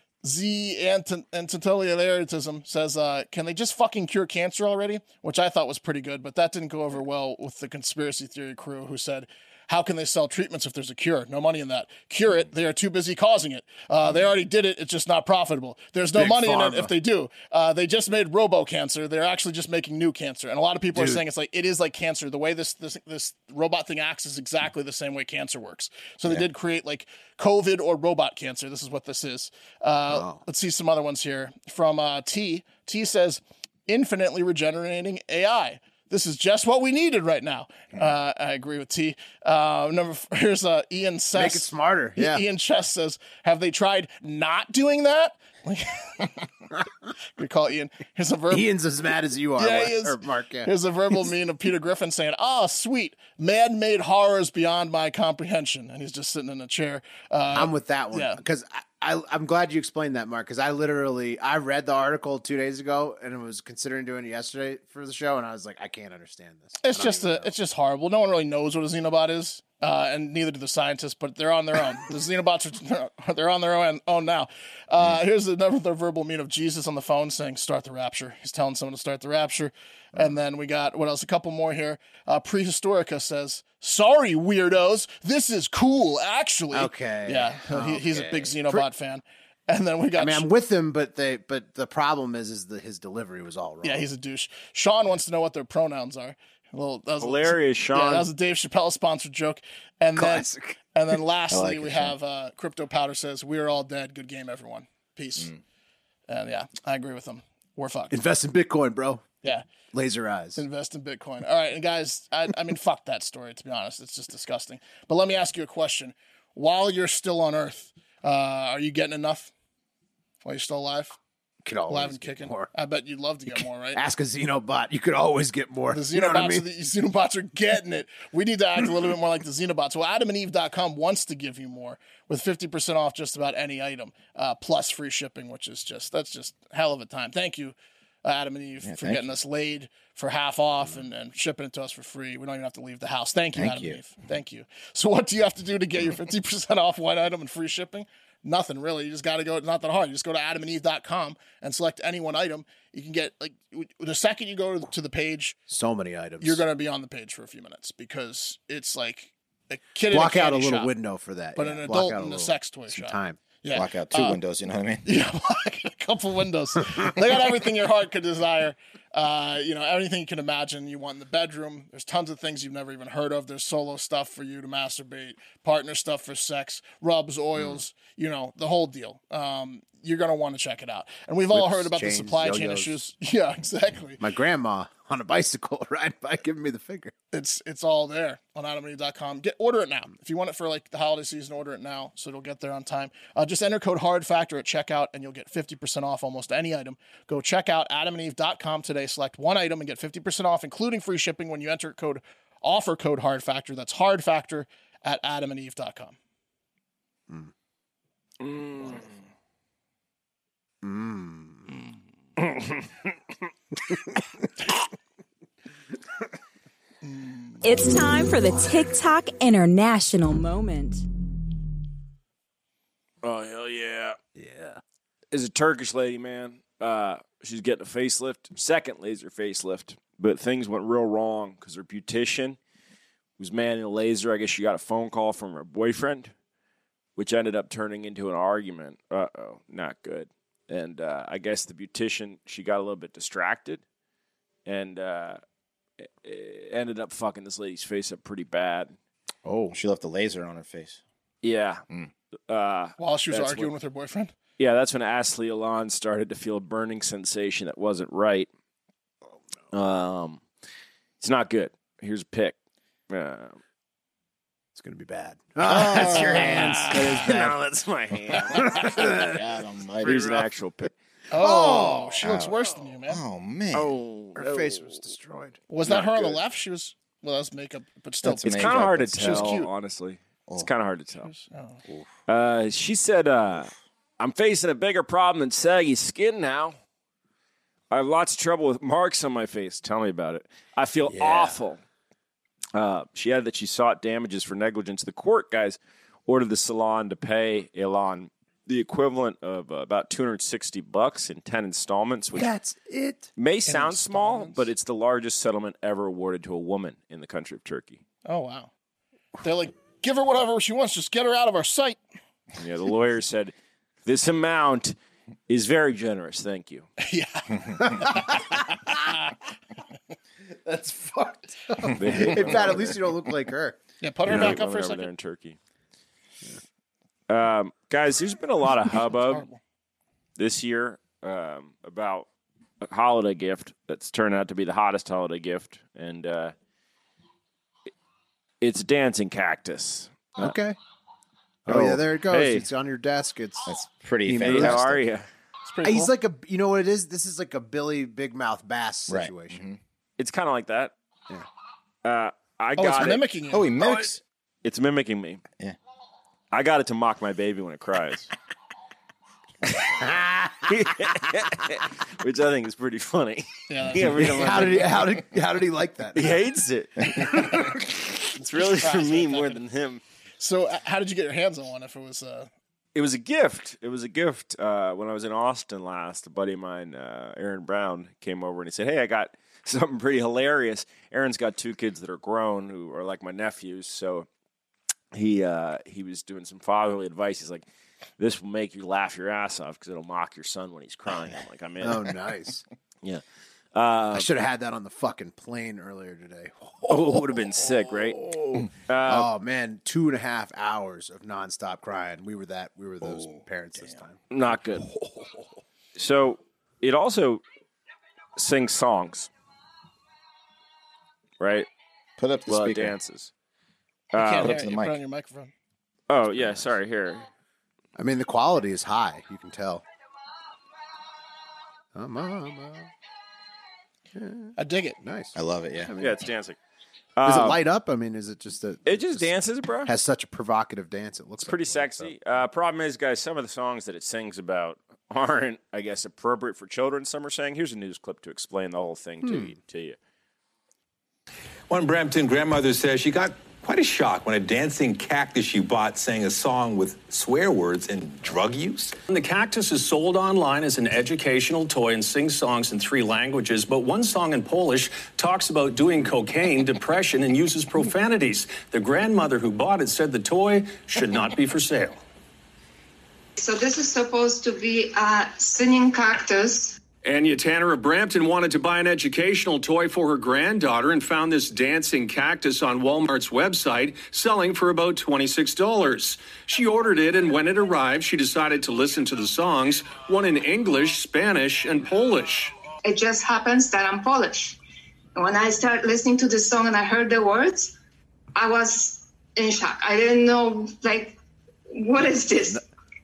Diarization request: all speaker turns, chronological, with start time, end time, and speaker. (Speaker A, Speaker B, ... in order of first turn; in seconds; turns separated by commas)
Speaker A: 0.2-46.3, Speaker B: 16.2-16.9, Speaker B: 20.9-21.2, Speaker B: 30.1-30.4, Speaker B: 41.4-42.4, Speaker A: 47.4-48.7, Speaker B: 48.5-50.7, Speaker A: 49.6-58.4, Speaker B: 57.5-67.5, Speaker A: 66.8-90.5, Speaker B: 86.7-88.8, Speaker B: 90.2-94.1, Speaker A: 93.8-105.5, Speaker C: 97.2-98.3, Speaker B: 100.2-100.8, Speaker D: 101.5-102.1, Speaker A: 106.3-108.2, Speaker B: 108.1-109.3, Speaker B: 109.9-110.6, Speaker A: 110.6-119.5, Speaker A: 120.4-121.2, Speaker B: 121.6-122.7, Speaker A: 121.9-124.0, Speaker B: 123.5-126.7, Speaker A: 125.9-155.6, Speaker D: 138.8-139.4, Speaker D: 143.6-144.0, Speaker B: 155.7-156.6, Speaker A: 156.4-160.9, Speaker B: 160.1-163.4, Speaker A: 161.6-164.4, Speaker D: 163.7-165.1, Speaker A: 165.1-184.2, Speaker B: 181.5-183.0, Speaker B: 184.2-187.1, Speaker A: 187.3-206.2, Speaker C: 208.4-209.0, Speaker B: 208.8-209.1, Speaker B: 210.8-211.7, Speaker B: 213.9-214.2, Speaker A: 217.0-217.6, Speaker E: 217.6-221.1, Speaker C: 223.2-224.2, Speaker B: 224.4-224.8, Speaker C: 225.3-232.6, Speaker C: 233.4-236.3, Speaker C: 237.2-243.8, Speaker C: 244.7-245.4, Speaker C: 246.0-248.9, Speaker B: 249.5-249.7, Speaker D: 249.7-251.0, Speaker C: 251.4-251.8, Speaker C: 252.5-253.7, Speaker A: 253.0-254.3, Speaker C: 254.6-258.5, Speaker C: 259.7-260.4, Speaker C: 261.2-262.6, Speaker C: 263.1-263.6, Speaker B: 264.8-267.6, Speaker D: 265.6-266.8, Speaker C: 265.9-269.2, Speaker A: 266.4-266.9, Speaker D: 268.5-270.5, Speaker B: 268.5-269.4, Speaker C: 270.0-270.9, Speaker A: 271.3-273.2, Speaker B: 271.3-272.2, Speaker D: 272.2-272.6, Speaker D: 273.1-273.9, Speaker C: 273.7-275.0, Speaker B: 274.4-275.6, Speaker A: 275.7-279.7, Speaker C: 275.9-276.4, Speaker D: 278.2-279.6, Speaker C: 278.4-281.3, Speaker A: 281.3-281.8, Speaker C: 282.3-286.8, Speaker C: 287.9-291.8, Speaker B: 291.1-291.6, Speaker C: 292.7-302.5, Speaker B: 302.3-303.3, Speaker C: 303.4-308.0, Speaker A: 303.7-304.6, Speaker A: 308.2-308.7, Speaker A: 309.4-312.0, Speaker C: 312.6-313.5, Speaker C: 314.1-315.0, Speaker C: 315.5-316.9, Speaker A: 317.0-319.3, Speaker B: 317.9-319.0, Speaker B: 320.5-323.8, Speaker C: 321.9-323.1, Speaker A: 324.0-325.1, Speaker C: 324.2-325.6, Speaker C: 327.3-329.4, Speaker A: 329.3-329.6, Speaker C: 330.4-332.3, Speaker C: 332.8-336.5, Speaker C: 338.6-340.6, Speaker B: 340.4-340.8, Speaker B: 341.7-343.7, Speaker C: 341.7-342.7, Speaker D: 343.7-345.0, Speaker B: 344.3-344.8, Speaker C: 344.4-345.3, Speaker A: 345.7-346.1, Speaker B: 345.8-349.6, Speaker D: 349.1-349.8, Speaker C: 350.2-350.9, Speaker C: 352.0-353.2, Speaker A: 352.8-353.7, Speaker D: 353.5-354.2, Speaker C: 354.6-355.4, Speaker C: 356.5-358.3, Speaker B: 360.0-360.7, Speaker C: 360.6-365.3, Speaker A: 363.7-364.2, Speaker B: 364.1-366.4, Speaker C: 366.1-370.0, Speaker A: 368.4-369.6, Speaker A: 370.4-372.5, Speaker C: 372.9-384.3, Speaker C: 385.1-387.7, Speaker C: 388.2-392.2, Speaker B: 391.8-392.6, Speaker C: 393.7-394.3, Speaker B: 394.1-404.2, Speaker C: 396.9-399.3, Speaker D: 403.0-403.4, Speaker C: 404.3-404.9, Speaker C: 406.0-407.4, Speaker C: 408.4-409.3, Speaker C: 411.4-411.7, Speaker D: 412.2-413.0, Speaker C: 412.5-413.3, Speaker C: 414.1-414.6, Speaker A: 414.1-415.5, Speaker D: 414.2-415.0, Speaker C: 416.1-417.3, Speaker B: 418.0-419.8, Speaker B: 421.9-422.9, Speaker B: 424.1-425.4, Speaker A: 424.6-425.0, Speaker D: 425.4-425.9, Speaker B: 425.9-426.2, Speaker C: 426.0-426.6, Speaker C: 427.2-427.6, Speaker B: 427.2-429.3, Speaker C: 428.9-429.9, Speaker B: 429.9-432.1, Speaker C: 431.4-440.0, Speaker B: 439.2-439.5, Speaker F: 441.7-449.0, Speaker G: 449.1-462.0, Speaker H: 463.4-466.8, Speaker G: 467.0-482.5, Speaker H: 482.8-484.6, Speaker H: 485.1-487.7, Speaker H: 488.4-491.2, Speaker H: 491.7-492.6